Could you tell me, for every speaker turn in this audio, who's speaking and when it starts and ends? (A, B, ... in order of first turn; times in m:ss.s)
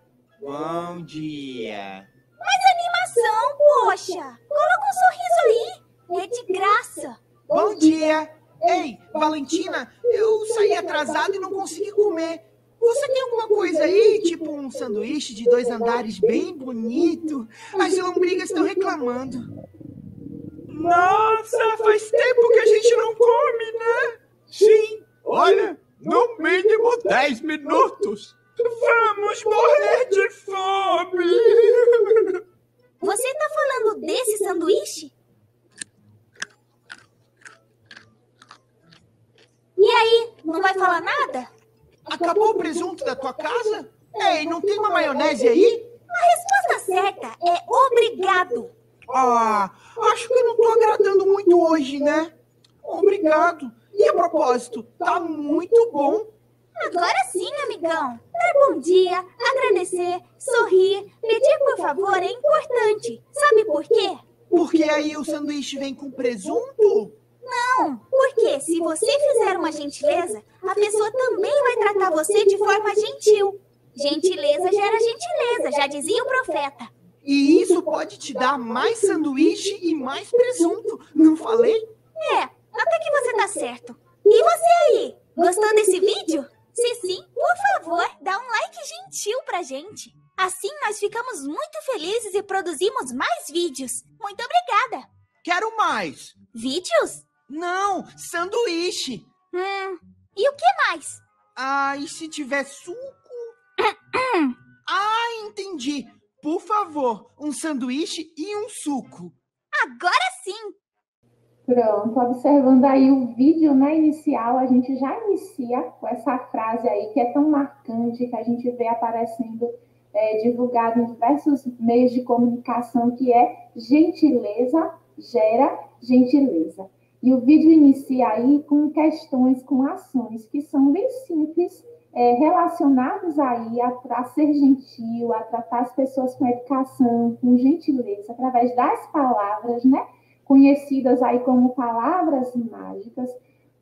0:00.4-0:02.1 A
0:02.4-0:07.2 B
0:07.5-0:19.5 A
0:20.7-0:32.4 A
0:33.0-0:35.1 B
0:39.8-0:41.5 B
0:42.1-0:45.9 A
0:46.1-0:48.7 B
0:49.1-0:56.3 A
0:56.8-1:04.2 B
1:04.5-1:07.2 A
1:07.4-1:16.9 B
1:17.2-1:21.9 A
1:22.2-1:35.1 B
1:35.4-1:36.4 A
1:36.5-1:37.3 B
1:37.5-1:39.3 A
1:39.5-1:41.2 B
1:41.6-1:43.6 A
1:43.8-1:44.6 B
1:44.9-1:49.4 A
1:49.7-1:50.8 B
1:51.7-2:23.4 C